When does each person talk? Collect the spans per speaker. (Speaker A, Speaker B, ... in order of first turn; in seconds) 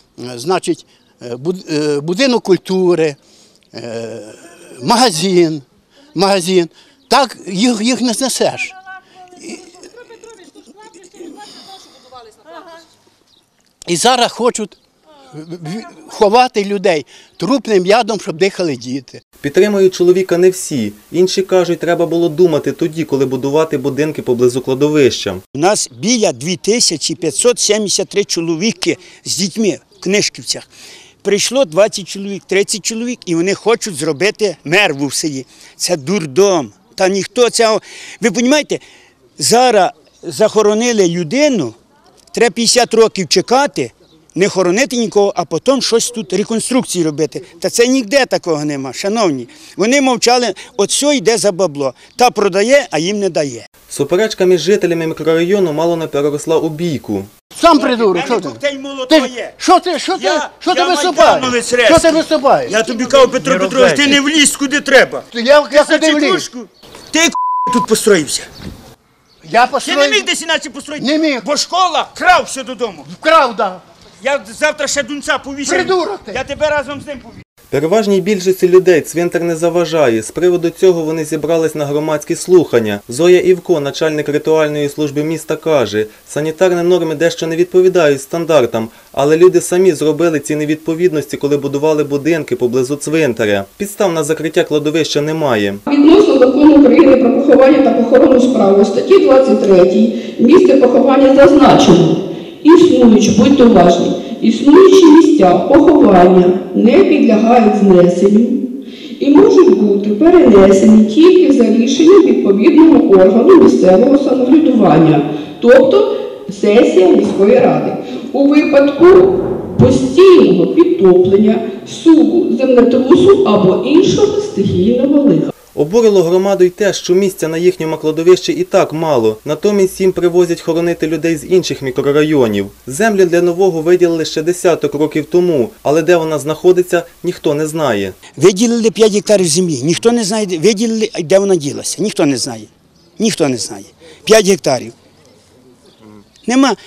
Speaker A: 0.2-3.2, 3.7-8.7, 9.4-9.6, 13.9-14.8, 15.3-19.2, 57.5-62.8, 63.4-64.2, 65.3-66.5, 69.4-70.3, 71.0-71.5, 73.0-73.8, 75.6-76.4
Speaker B: 19.4-25.4, 53.9-57.3, 77.7-95.8, 125.7-138.2
Speaker C: 25.5-30.7, 31.2-38.8, 39.4-41.8, 42.3-53.7, 57.7-59.5, 60.1-68.5, 69.8-73.1, 74.2-77.4, 138.3-142.7, 143.2-144.9, 146.4-146.8
Speaker D: 95.9-108.6, 109.2-125.5